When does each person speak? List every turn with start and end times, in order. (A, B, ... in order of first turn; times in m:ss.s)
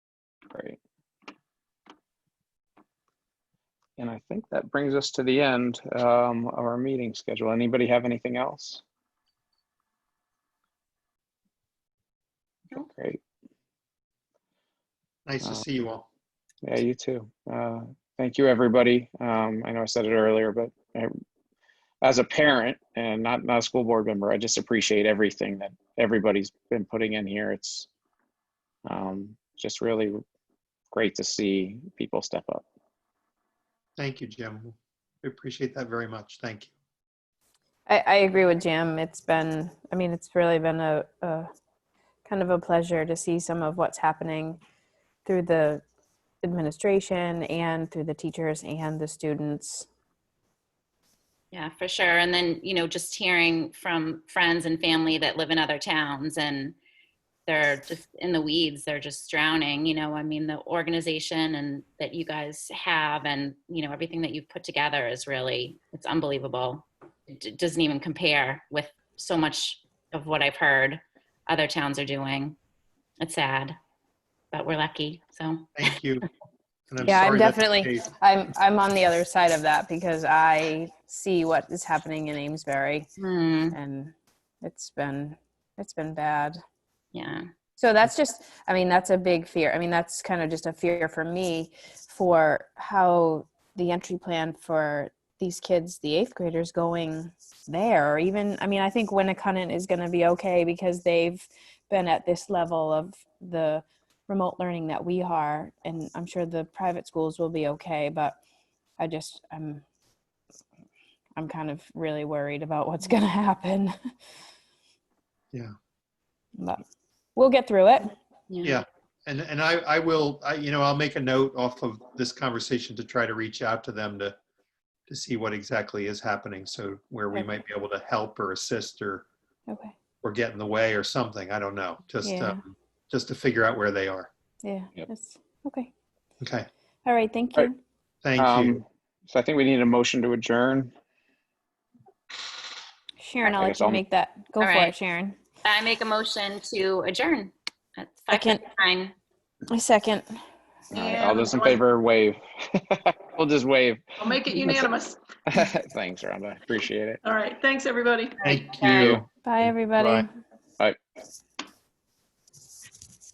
0:00.5-0:00.8 A
0:04.0-0:08.8 A
0:12.8-0:13.2 A
0:15.3-0:16.1 B
0:16.6-0:21.2 A
0:22.0-0:27.9 A
0:28.8-0:30.2 A
0:30.9-0:32.7 A
0:34.0-0:36.7 B
0:37.9-0:41.5 C
0:42.3-0:44.6 C
0:45.2-0:45.8 C
0:46.4-0:49.9 C
0:51.5-0:56.8 D
0:57.5-1:12.6 D
1:13.2-1:13.8 D
1:14.5-1:15.9 D
1:15.8-1:16.3 B
1:16.9-1:18.1 B
1:17.0-1:23.1 C
1:23.2-1:23.8 D
1:23.7-1:26.6 C
1:27.1-1:27.4 D
1:27.8-1:48.4 C
1:49.0-1:49.8 C
1:51.4-1:53.9 C
1:56.6-1:56.8 C
1:57.4-1:58.1 C
1:58.5-1:58.8 D
1:58.6-2:04.4 B
2:05.1-2:09.3 B
2:09.7-2:10.0 C
2:10.2-2:14.3 B
2:12.2-2:12.6 C
2:14.6-2:15.9 C
2:16.4-2:16.7 B
2:17.0-2:17.8 C
2:18.2-2:18.8 B
2:18.4-2:20.9 A
2:23.2-2:25.4 C
2:23.4-2:24.0 A
2:24.6-2:24.9 D
2:25.6-2:29.1 D
2:28.3-2:28.6 C
2:29.7-2:30.2 C
2:30.9-2:31.8 E
2:30.9-2:34.9 A
2:34.2-2:35.2 E
2:35.5-2:37.2 A
2:37.2-2:38.4 E
2:38.4-2:40.2 B
2:38.5-2:39.2 D
2:39.0-2:39.2 A
2:39.4-2:40.3 C